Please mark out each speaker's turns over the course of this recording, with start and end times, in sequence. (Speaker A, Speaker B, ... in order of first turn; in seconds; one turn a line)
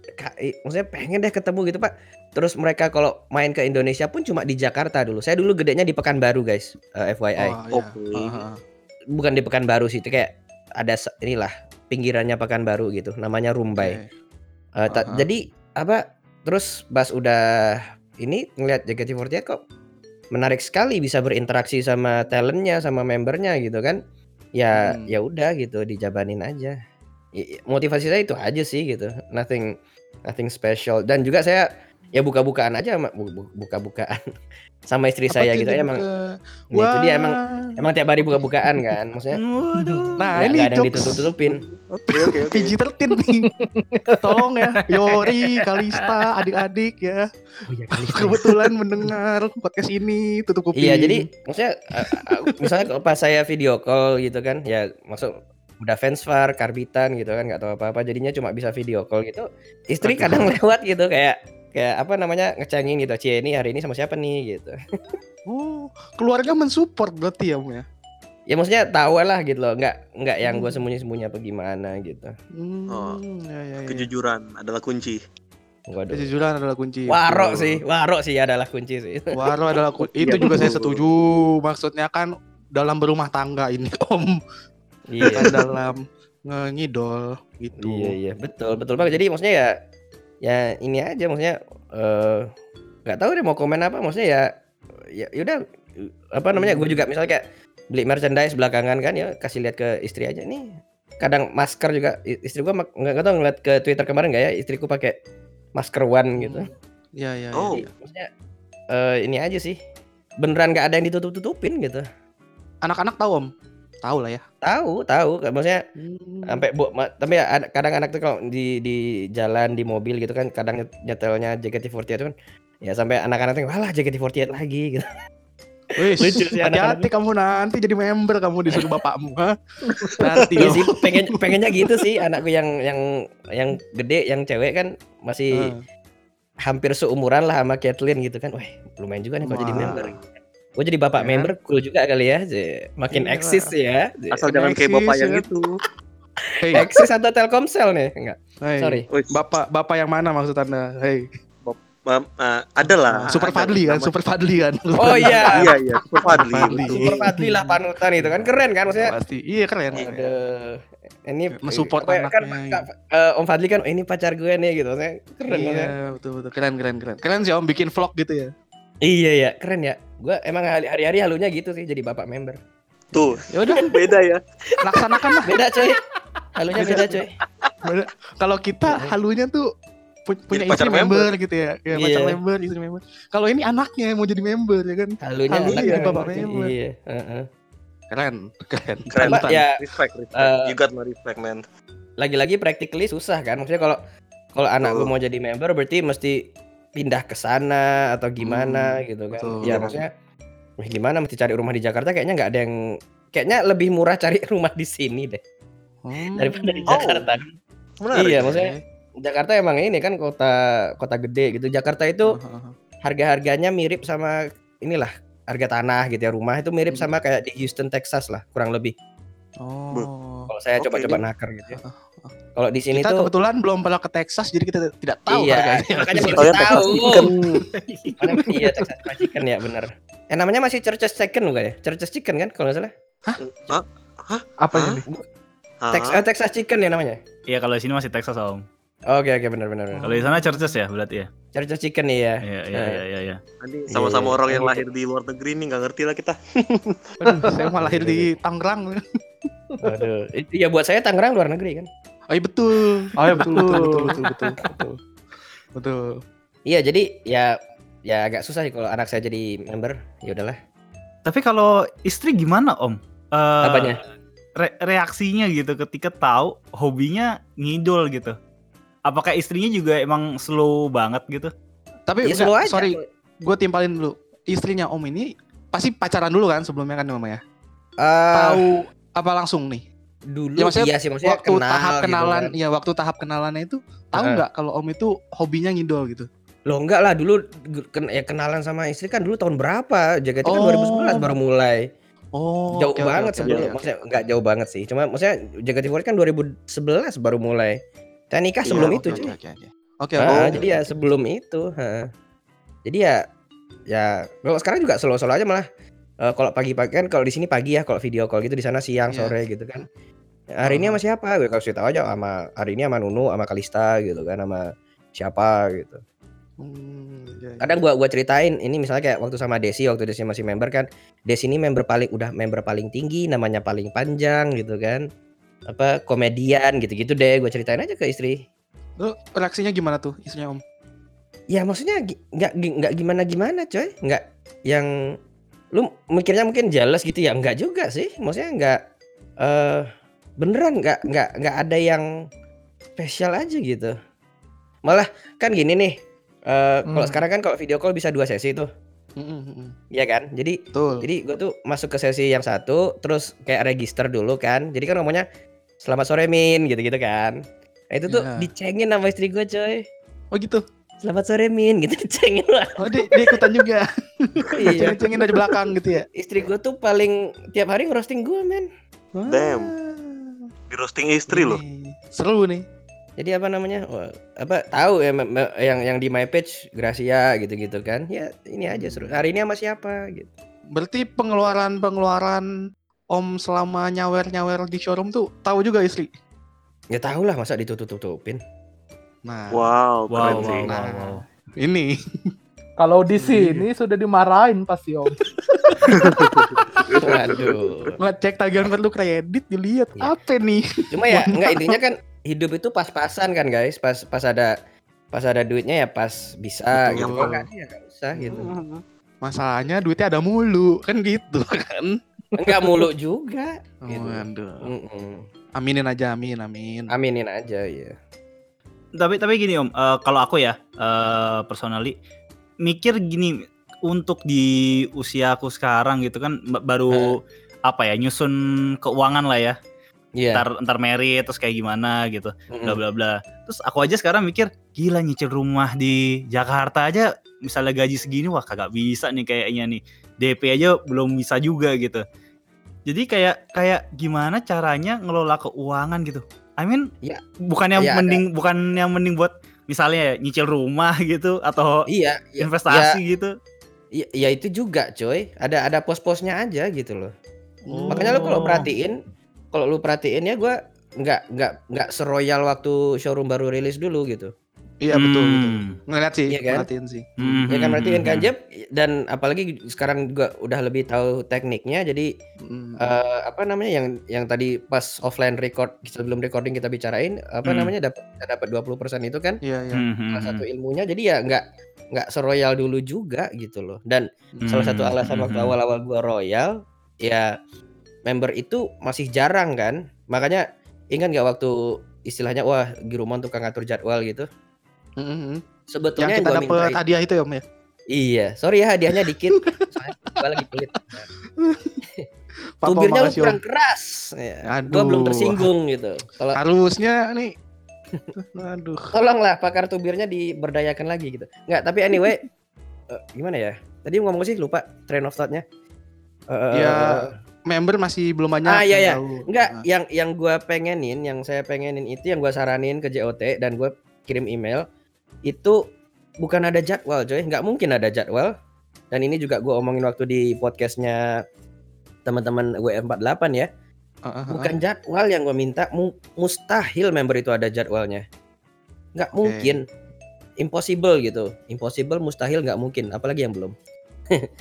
Speaker A: 0.2-7.6
Speaker B: 7.4-8.6
Speaker C: 7.7-8.4
Speaker A: 9.1-14.0
Speaker B: 13.8-14.1
Speaker A: 14.8-19.6
Speaker B: 14.9-15.3
Speaker A: 20.3-24.0
Speaker A: 24.6-26.7
Speaker B: 24.8-25.1
Speaker A: 27.4-29.7
Speaker A: 30.3-34.2
Speaker A: 34.9-36.0
Speaker B: 35.3-36.1
Speaker A: 36.7-39.4
Speaker B: 36.7-37.3
Speaker B: 38.2-38.8
Speaker D: 39.3-40.3
Speaker B: 40.2-41.3
Speaker A: 40.4-41.6
Speaker C: 41.7-42.8
Speaker B: 42.1-43.5
Speaker E: 43.6-44.2
Speaker B: 44.2-47.2
Speaker A: 47.7-48.5
Speaker B: 47.9-51.3
Speaker A: 50.8-64.8
Speaker B: 52.0-52.7
Speaker B: 60.0-60.5
Speaker B: 65.5-67.8
Speaker A: 68.5-72.3
Speaker B: 70.4-70.8
Speaker B: 72.6-74.1
Speaker C: 72.9-73.2
Speaker C: 73.9-75.2
Speaker A: 75.9-76.2
Speaker B: 76.1-77.8
Speaker A: 77.1-79.2
Speaker B: 79.3-84.4
Speaker C: 80.0-81.0
Speaker A: 85.1-85.5
Speaker B: 85.3-88.2
Speaker A: 87.8-89.7
Speaker A: 90.4-92.5
Speaker A: 93.1-94.5
Speaker A: 95.1-105.2
Speaker B: 96.5-97.1
Speaker A: 105.8-106.7
Speaker B: 106.4-107.9
Speaker C: 107.6-107.8
Speaker A: 107.7-108.3
Speaker A: 108.9-109.8
Speaker A: 110.4-112.0
Speaker B: 112.8-113.5
Speaker B: 114.0-114.4
Speaker A: 114.6-115.8
Speaker B: 116.0-116.7
Speaker A: 116.5-122.3
Speaker A: 122.8-125.1
Speaker B: 126.0-131.8
Speaker A: 126.2-127.1
Speaker C: 130.0-130.8
Speaker A: 130.6-135.7
Speaker A: 136.7-140.1
Speaker B: 139.4-140.1
Speaker A: 140.8-144.4
Speaker B: 141.2-141.5
Speaker B: 143.1-143.7
Speaker C: 144.3-145.7
Speaker B: 144.5-145.4
Speaker B: 146.6-146.9
Speaker A: 146.8-149.1
Speaker B: 148.6-151.3
Speaker C: 149.1-149.4
Speaker C: 151.6-154.1
Speaker B: 153.1-160.1
Speaker A: 155.0-155.7
Speaker C: 155.0-157.2
Speaker A: 156.7-159.1
Speaker A: 159.9-165.9
Speaker C: 159.9-160.3
Speaker B: 161.5-162.8
Speaker B: 165.5-168.5
Speaker A: 169.1-172.6
Speaker C: 173.1-174.4
Speaker B: 173.5-173.8
Speaker B: 174.8-175.6
Speaker A: 175.4-176.0
Speaker A: 176.6-177.3
Speaker B: 176.8-177.2
Speaker C: 176.8-177.7
Speaker B: 177.8-179.7
Speaker B: 180.3-186.7
Speaker C: 180.5-181.3
Speaker A: 181.9-182.4
Speaker A: 185.2-187.4
Speaker C: 185.7-186.2
Speaker B: 188.1-189.6
Speaker C: 189.1-191.6
Speaker A: 189.2-189.7
Speaker A: 190.3-190.7
Speaker A: 192.2-194.0
Speaker A: 194.6-196.4
Speaker C: 194.8-195.1
Speaker A: 196.9-200.1
Speaker B: 198.4-200.0
Speaker C: 199.7-199.9
Speaker A: 200.8-202.7
Speaker A: 203.3-205.4
Speaker B: 206.0-207.1
Speaker A: 206.4-207.4
Speaker C: 206.9-207.3
Speaker C: 208.0-208.6
Speaker A: 208.2-212.3
Speaker B: 208.4-208.8
Speaker B: 212.3-212.7
Speaker A: 213.1-218.9
Speaker B: 219.6-220.5
Speaker A: 220.5-221.8
Speaker C: 220.8-221.2
Speaker B: 221.7-222.3
Speaker A: 222.6-223.3
Speaker B: 222.9-227.7
Speaker A: 225.3-227.3
Speaker C: 226.4-227.6
Speaker A: 228.2-232.9
Speaker B: 228.3-228.7
Speaker B: 233.2-233.8
Speaker C: 233.4-235.0
Speaker B: 234.6-235.0
Speaker C: 235.8-236.2
Speaker A: 235.9-237.2
Speaker D: 237.5-238.6
Speaker A: 239.1-240.0
Speaker B: 239.9-240.8
Speaker D: 240.1-241.3
Speaker A: 241.6-243.0
Speaker D: 242.4-243.4
Speaker C: 243.6-246.4
Speaker A: 243.9-244.8
Speaker B: 247.2-249.0
Speaker E: 247.3-247.5
Speaker A: 247.8-248.3
Speaker A: 249.8-251.9
Speaker B: 252.3-255.0
Speaker E: 253.2-254.5
Speaker B: 255.8-256.2
Speaker A: 256.7-260.6
Speaker D: 261.3-264.0
Speaker A: 263.6-264.0
Speaker D: 264.6-268.4
Speaker D: 269.1-271.5
Speaker B: 272.1-277.4
Speaker A: 272.2-273.1
Speaker A: 278.0-278.7
Speaker B: 278.3-279.8
Speaker A: 280.3-282.5
Speaker B: 280.6-286.3
Speaker A: 284.2-284.4
Speaker A: 286.7-291.8
Speaker B: 290.4-291.3
Speaker B: 292.3-293.9
Speaker A: 292.8-297.8
Speaker A: 298.3-299.3
Speaker C: 298.6-299.2
Speaker B: 298.7-300.7
Speaker A: 300.2-302.1
Speaker C: 300.3-300.6
Speaker A: 302.9-303.2
Speaker A: 303.9-305.6
Speaker A: 306.2-309.8
Speaker B: 309.1-309.4
Speaker A: 310.5-316.0
Speaker B: 310.6-311.0
Speaker B: 316.6-317.8
Speaker A: 317.6-325.1
Speaker A: 325.7-328.4
Speaker B: 329.0-330.6
Speaker A: 331.5-334.9
Speaker A: 335.7-338.8
Speaker A: 339.4-339.9
Speaker A: 340.4-342.1
Speaker A: 343.0-343.9
Speaker A: 344.9-345.9
Speaker A: 346.5-348.7
Speaker B: 346.9-347.2
Speaker B: 349.2-349.7
Speaker A: 349.9-355.2
Speaker B: 350.7-351.1
Speaker A: 355.8-357.4
Speaker A: 357.9-359.8
Speaker B: 358.1-358.5
Speaker B: 360.3-360.6
Speaker A: 361.0-363.0
Speaker B: 362.8-366.1
Speaker A: 364.6-365.0
Speaker A: 366.2-368.7
Speaker B: 369.1-370.5
Speaker C: 369.3-369.7
Speaker C: 370.7-371.6
Speaker B: 371.3-372.6
Speaker A: 373.2-380.3
Speaker B: 378.7-379.2
Speaker B: 380.8-382.4
Speaker B: 383.1-386.1
Speaker A: 386.9-388.4
Speaker B: 389.2-391.9
Speaker C: 389.5-390.7
Speaker D: 390.1-391.2
Speaker E: 392.8-395.2
Speaker B: 393.1-393.7
Speaker B: 395.5-396.1
Speaker C: 395.9-397.9
Speaker A: 397.0-397.9
Speaker B: 398.0-401.8
Speaker A: 400.9-404.5
Speaker A: 405.1-408.5
Speaker B: 406.8-407.4
Speaker C: 406.9-407.3
Speaker B: 408.2-408.6
Speaker C: 408.3-408.8
Speaker B: 409.2-412.0
Speaker A: 412.4-415.2
Speaker B: 413.9-414.7
Speaker B: 415.6-416.9
Speaker A: 416.9-417.9
Speaker D: 419.0-421.9
Speaker D: 422.6-429.6
Speaker A: 430.2-430.4
Speaker D: 430.3-442.0
Speaker A: 432.5-432.8
Speaker D: 442.9-446.9
Speaker D: 447.5-451.8
Speaker A: 447.8-448.2
Speaker A: 451.9-452.9
Speaker D: 452.4-453.3
Speaker A: 453.9-457.1
Speaker B: 457.7-458.6
Speaker D: 457.7-458.7
Speaker A: 457.9-458.9
Speaker A: 459.5-464.3
Speaker B: 464.8-467.5
Speaker D: 464.9-465.7
Speaker A: 466.3-466.7
Speaker D: 467.2-468.3
Speaker A: 467.5-472.1
Speaker B: 472.4-472.8
Speaker A: 472.8-479.4
Speaker D: 477.4-477.7
Speaker B: 479.4-479.8
Speaker D: 479.7-480.4
Speaker A: 480.1-486.5
Speaker B: 484.4-484.7
Speaker D: 484.4-485.6
Speaker A: 487.0-487.3
Speaker A: 488.1-491.5
Speaker A: 492.0-494.3
Speaker B: 495.0-495.4
Speaker A: 495.7-496.8
Speaker B: 496.0-497.4
Speaker A: 497.9-501.1
Speaker B: 498.9-499.6
Speaker B: 501.4-501.8
Speaker B: 502.6-503.4
Speaker A: 502.7-506.4
Speaker B: 504.5-505.4
Speaker B: 506.3-507.3
Speaker B: 508.2-508.9
Speaker A: 508.9-512.2
Speaker A: 512.9-515.4
Speaker A: 516.3-517.1
Speaker B: 516.5-519.6
Speaker A: 518.5-524.6
Speaker A: 525.3-525.6
Speaker A: 526.2-528.3
Speaker A: 528.9-531.0
Speaker A: 532.1-533.5
Speaker B: 534.1-534.5
Speaker A: 534.3-538.0
Speaker A: 538.9-539.6
Speaker B: 539.2-539.6
Speaker A: 540.4-543.5